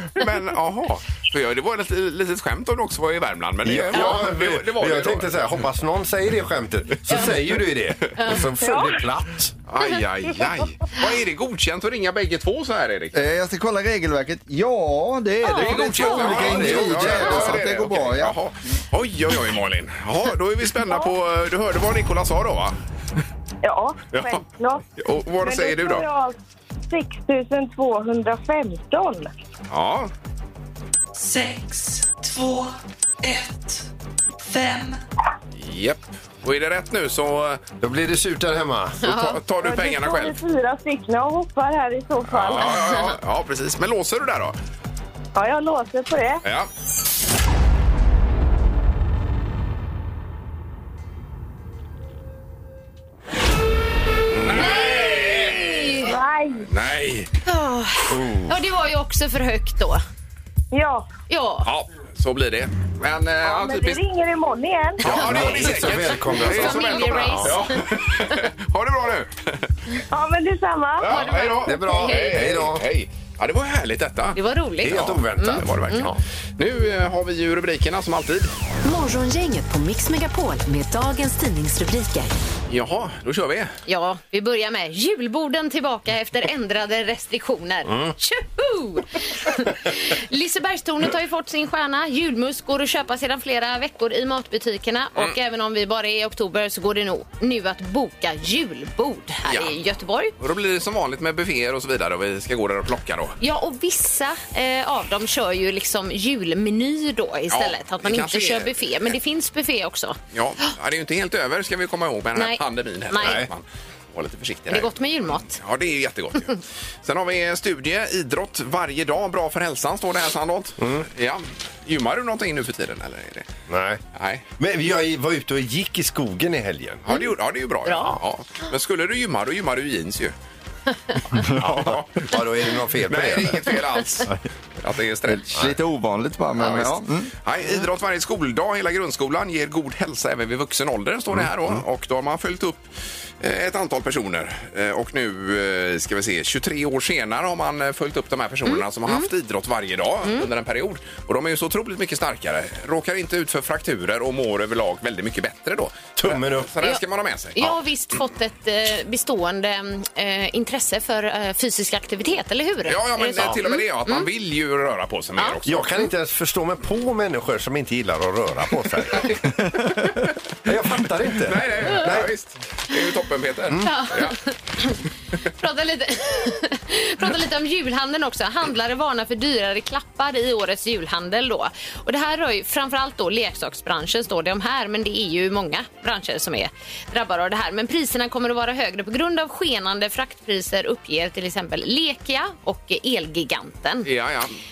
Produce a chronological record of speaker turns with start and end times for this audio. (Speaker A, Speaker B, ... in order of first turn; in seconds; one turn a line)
Speaker A: 0.1-5.5
Speaker B: 3.6-9.5
Speaker C: 8.2-8.5
Speaker D: 8.6-9.0
Speaker A: 9.7-13.2
Speaker E: 13.1-18.4
Speaker C: 15.4-16.7
Speaker A: 15.5-22.8
Speaker B: 16.3-17.6
Speaker D: 23.6-24.8
Speaker A: 24.1-24.4
Speaker A: 25.0-26.1
Speaker D: 25.4-26.4
Speaker D: 26.9-29.3
Speaker A: 29.7-30.1
Speaker F: 31.1-33.9
Speaker F: 34.4-35.0
Speaker A: 35.5-37.6
Speaker B: 37.8-39.1
Speaker C: 39.0-39.4
Speaker A: 39.0-40.4
Speaker D: 39.6-42.9
Speaker A: 42.3-44.6
Speaker C: 42.7-43.1
Speaker D: 45.3-46.4
Speaker A: 46.4-46.7
Speaker A: 54.4-56.0
Speaker C: 54.5-56.1
Speaker D: 56.0-56.7
Speaker A: 56.7-57.3
Speaker C: 57.4-60.0
Speaker B: 58.1-58.6
Speaker D: 60.7-61.1
Speaker C: 61.3-61.7
Speaker A: 61.6-64.0
Speaker D: 63.4-65.0
Speaker A: 65.0-69.7
Speaker B: 65.0-67.6
Speaker C: 66.0-67.7
Speaker D: 70.1-71.1
Speaker A: 71.0-78.5
Speaker C: 71.1-72.4
Speaker B: 71.6-72.8
Speaker C: 74.3-76.1
Speaker B: 74.8-76.2
Speaker G: 78.8-82.3
Speaker A: 82.7-83.7
Speaker C: 83.8-100.3
Speaker B: 87.9-88.1
Speaker A: 99.5-99.8
Speaker A: 100.4-103.4
Speaker C: 103.4-110.2
Speaker A: 107.5-108.8
Speaker A: 110.3-114.9
Speaker C: 112.3-113.4
Speaker B: 113.2-113.5
Speaker C: 114.7-115.6
Speaker A: 115.5-123.5
Speaker B: 120.8-121.1
Speaker B: 123.7-124.0
Speaker A: 124.1-124.4
Speaker B: 124.6-127.0
Speaker A: 127.0-130.3
Speaker C: 127.8-128.1
Speaker E: 131.4-131.9
Speaker B: 131.6-133.7
Speaker A: 131.6-132.1
Speaker A: 133.1-135.6
Speaker E: 135.3-137.3
Speaker A: 136.6-142.9
Speaker B: 141.3-141.8
Speaker A: 143.4-157.8
Speaker C: 148.7-149.3
Speaker B: 156.2-156.7
Speaker C: 157.6-164.3
Speaker A: 162.8-165.9
Speaker B: 165.6-169.4
Speaker B: 170.6-172.3
Speaker A: 171.4-174.4
Speaker C: 173.8-175.0
Speaker C: 175.6-194.1
Speaker A: 194.0-194.6